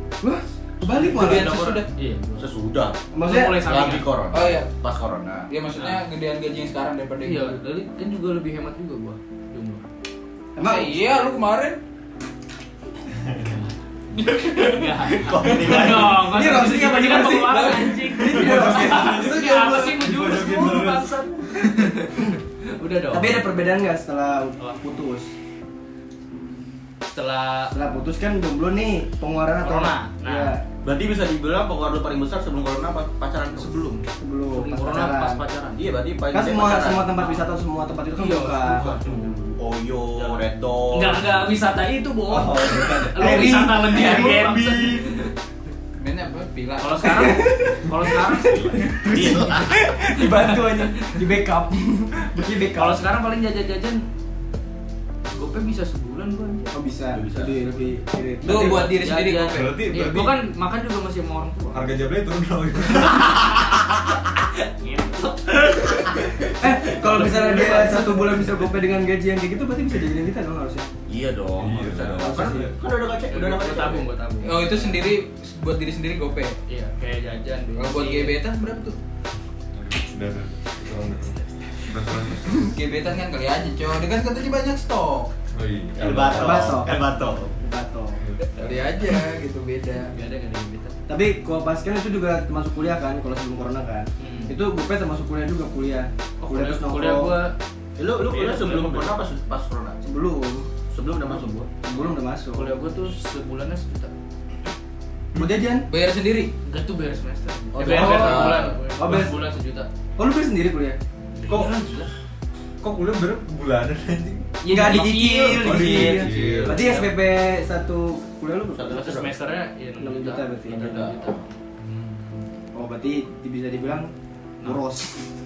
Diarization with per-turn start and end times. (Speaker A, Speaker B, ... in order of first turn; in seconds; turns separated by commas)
Speaker A: 0.2-1.8, Speaker B: 0.9-1.9, Speaker C: 1.5-2.5, Speaker D: 2.4-3.0, Speaker A: 3.1-3.8, Speaker C: 3.2-4.1, Speaker D: 3.5-5.5, Speaker B: 4.3-4.7, Speaker B: 5.5-7.6, Speaker C: 5.7-6.0, Speaker C: 7.2-9.8, Speaker A: 10.5-10.9, Speaker B: 10.6-11.8, Speaker E: 13.1-13.6, Speaker B: 14.1-14.8, Speaker C: 14.2-23.5, Speaker D: 15.1-16.4, Speaker A: 15.9-19.4, Speaker B: 17.5-18.1, Speaker E: 18.3-21.2, Speaker A: 23.1-25.3, Speaker C: 27.0-27.7, Speaker A: 27.7-30.6, Speaker C: 29.6-30.6, Speaker D: 30.8-34.0, Speaker C: 33.6-35.9, Speaker A: 34.2-35.4, Speaker D: 35.8-37.1, Speaker A: 36.3-39.3, Speaker C: 37.1-37.5, Speaker C: 38.1-39.5, Speaker D: 39.6-41.3, Speaker B: 40.2-40.4, Speaker C: 40.9-45.3, Speaker E: 42.3-43.3, Speaker A: 42.4-45.0, Speaker B: 46.0-47.1, Speaker C: 46.8-49.5, Speaker A: 47.0-53.0, Speaker D: 49.0-49.7, Speaker C: 50.2-51.3, Speaker C: 52.7-54.0, Speaker C: 55.3-56.8, Speaker A: 56.7-58.9, Speaker D: 57.1-57.6, Speaker C: 58.4-62.0, Speaker B: 58.4-59.8, Speaker E: 59.5-60.4, Speaker E: 61.7-63.6, Speaker C: 63.0-63.8, Speaker C: 64.4-68.6, Speaker A: 66.6-70.9, Speaker D: 71.1-74.0, Speaker E: 71.5-72.7, Speaker A: 72.2-72.7, Speaker C: 73.3-75.1, Speaker B: 74.4-76.6, Speaker C: 76.7-78.4, Speaker B: 77.8-79.0, Speaker E: 79.7-82.7, Speaker B: 82.6-85.3, Speaker E: 85.5-87.2, Speaker D: 86.0-87.5, Speaker A: 86.2-87.0, Speaker A: 87.5-88.2, Speaker E: 88.2-88.5, Speaker B: 88.5-90.1, Speaker C: 90.1-91.0, Speaker A: 91.1-97.3, Speaker C: 94.2-94.5, Speaker C: 96.4-97.5, Speaker D: 98.0-100.0, Speaker C: 98.2-99.2, Speaker A: 100.0-100.7, Speaker D: 100.9-101.7, Speaker A: 101.8-102.7, Speaker C: 101.9-104.1, Speaker A: 105.3-105.9, Speaker B: 105.8-106.5, Speaker C: 106.6-109.9, Speaker D: 107.7-108.8, Speaker A: 107.8-109.4, Speaker A: 110.2-111.0, Speaker C: 111.3-112.1, Speaker E: 112.8-114.9, Speaker C: 114.6-117.1, Speaker A: 114.7-119.0, Speaker D: 115.5-116.8, Speaker E: 115.6-117.0, Speaker D: 118.7-119.3, Speaker C: 118.8-121.5, Speaker A: 120.0-121.0, Speaker D: 120.7-121.4, Speaker A: 122.7-125.2